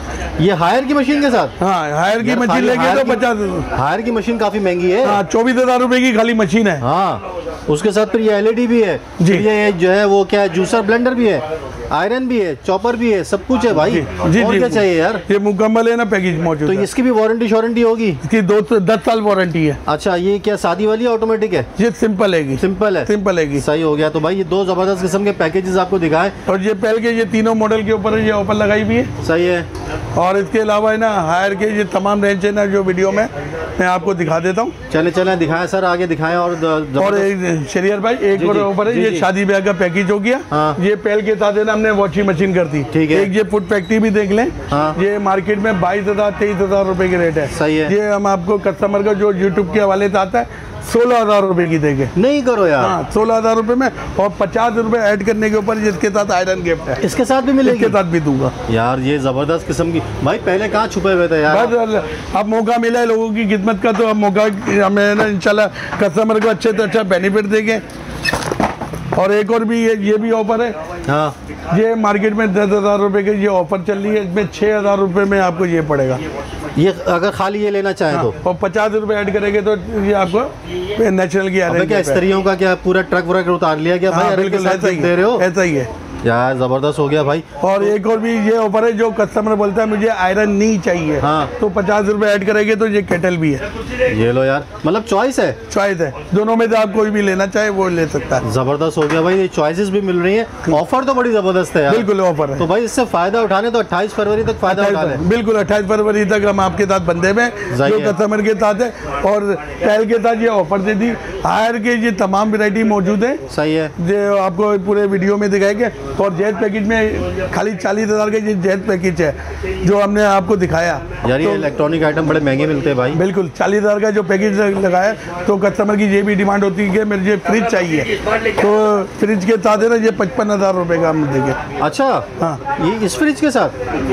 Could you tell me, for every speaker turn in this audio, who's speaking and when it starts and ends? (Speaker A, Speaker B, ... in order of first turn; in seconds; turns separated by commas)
Speaker A: 0.4-1.5, Speaker B: 1.6-3.7, Speaker A: 2.2-5.2, Speaker B: 5.0-6.8, Speaker A: 6.8-15.2, Speaker B: 9.2-9.4, Speaker B: 13.8-16.9, Speaker A: 16.6-18.2, Speaker B: 18.2-19.8, Speaker A: 19.9-21.7, Speaker B: 21.8-23.6, Speaker A: 22.6-26.3, Speaker B: 26.5-29.1, Speaker A: 29.2-29.7, Speaker B: 30.1-34.7, Speaker A: 34.9-37.3, Speaker B: 37.0-52.1, Speaker A: 38.4-39.3, Speaker A: 40.5-40.8, Speaker A: 42.9-43.3, Speaker A: 44.7-45.0, Speaker A: 47.5-47.9, Speaker A: 52.1-53.0, Speaker B: 52.8-57.0, Speaker A: 57.0-58.0, Speaker B: 57.6-58.5, Speaker A: 58.6-61.8, Speaker B: 61.5-67.8, Speaker B: 69.2-70.7, Speaker A: 71.0-71.3, Speaker B: 71.7-76.2, Speaker A: 76.7-78.3, Speaker B: 78.1-82.2, Speaker A: 81.7-85.5, Speaker B: 84.1-85.9, Speaker A: 86.2-87.9, Speaker B: 87.6-93.6, Speaker A: 91.2-91.5, Speaker A: 94.0-95.6, Speaker B: 95.7-98.4, Speaker A: 98.4-105.2, Speaker B: 101.9-102.7, Speaker B: 104.7-113.4, Speaker A: 107.7-108.2, Speaker A: 113.5-113.9, Speaker B: 114.0-121.7, Speaker A: 121.2-123.2, Speaker B: 123.1-131.6, Speaker A: 131.8-133.7